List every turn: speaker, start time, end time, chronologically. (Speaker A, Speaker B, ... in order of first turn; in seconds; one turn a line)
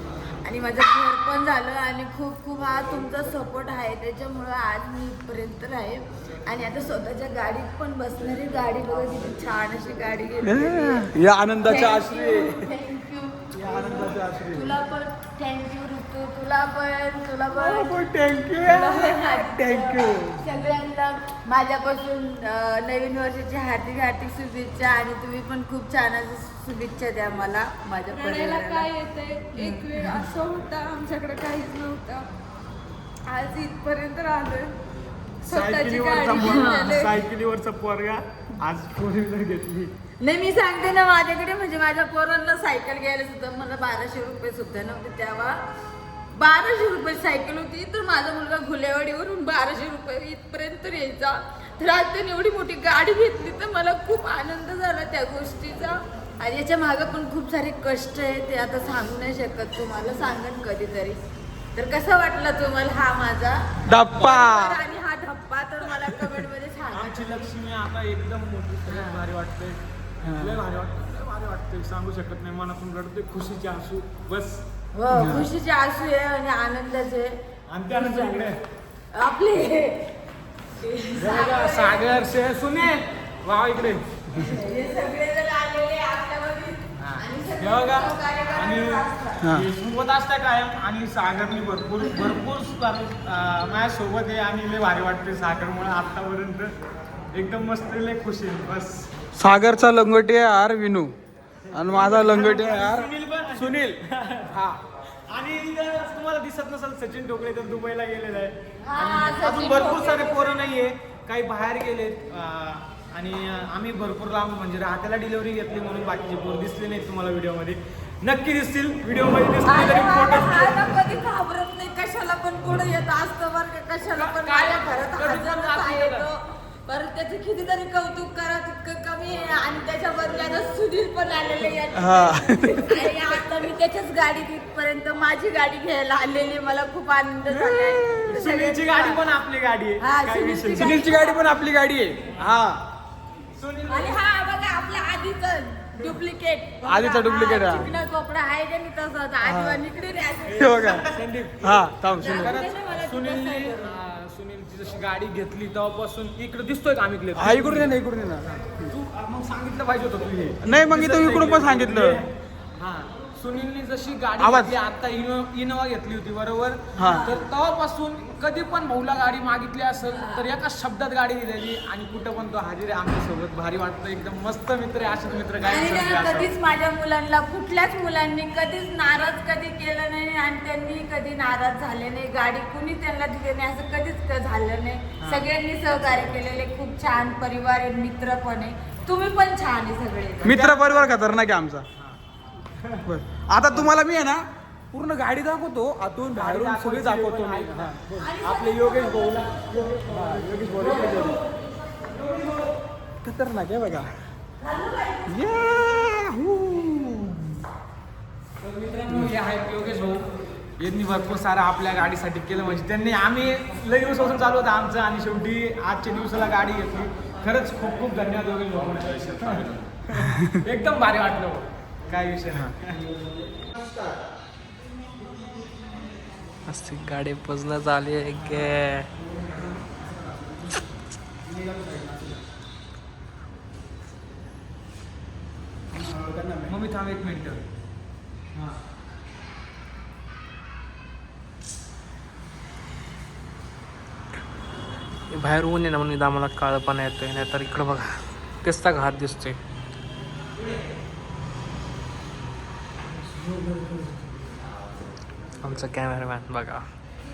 Speaker A: 0.4-11.1
Speaker B: 10.4-12.7
Speaker A: 11.6-18.0
Speaker B: 13.5-14.7
Speaker B: 17.5-20.4
Speaker A: 18.6-28.9
Speaker C: 28.1-32.3
Speaker A: 29.5-30.3
Speaker C: 33.3-34.8
Speaker C: 35.5-37.0
Speaker D: 35.5-39.9
Speaker A: 36.3-37.2
Speaker A: 40.2-45.6
Speaker A: 46.3-61.2
Speaker A: 61.7-67.5
Speaker D: 63.9-64.8
Speaker D: 66.9-74.7
Speaker A: 68.9-69.2
Speaker B: 70.2-70.6
Speaker A: 74.9-77.4
Speaker B: 75.1-75.5
Speaker D: 77.7-78.6
Speaker A: 77.9-78.5
Speaker A: 79.1-80.1
Speaker A: 80.8-82.0
Speaker D: 81.2-84.2
Speaker C: 81.5-81.9
Speaker A: 84.3-89.5
Speaker D: 87.0-96.7
Speaker B: 89.4-89.7
Speaker D: 97.3-99.2
Speaker B: 99.3-101.1
Speaker D: 101.7-121.0
Speaker B: 101.7-104.0
Speaker A: 108.8-110.7
Speaker A: 119.6-139.2
Speaker D: 124.2-126.3
Speaker B: 132.0-133.1
Speaker B: 137.6-138.2
Speaker D: 138.2-141.1
Speaker A: 140.0-141.6
Speaker B: 140.8-142.6
Speaker D: 142.4-142.7
Speaker D: 143.6-144.2
Speaker A: 143.9-151.0
Speaker B: 146.8-147.9
Speaker D: 149.4-149.8
Speaker D: 150.5-158.0
Speaker B: 150.6-151.1
Speaker B: 151.6-152.5
Speaker A: 152.2-153.9
Speaker B: 157.3-158.9
Speaker D: 158.5-176.5
Speaker B: 160.6-162.2
Speaker B: 164.4-164.8
Speaker B: 167.0-167.3
Speaker A: 167.0-167.4
Speaker A: 170.1-170.4
Speaker A: 175.6-190.7
Speaker D: 185.2-185.5
Speaker B: 190.4-191.9
Speaker D: 190.4-191.2
Speaker D: 192.7-193.1
Speaker B: 193.1-198.4
Speaker D: 196.3-201.3
Speaker A: 198.2-199.5
Speaker B: 199.8-201.4
Speaker B: 203.2-204.1
Speaker A: 204.6-205.2
Speaker B: 205.3-207.5
Speaker D: 208.7-210.3
Speaker D: 210.8-222.8
Speaker B: 220.2-220.5
Speaker E: 226.7-229.1
Speaker B: 231.4-232.4
Speaker B: 235.9-236.7
Speaker D: 236.7-237.6
Speaker E: 245.3-248.1
Speaker E: 248.6-249.6
Speaker E: 255.6-256.9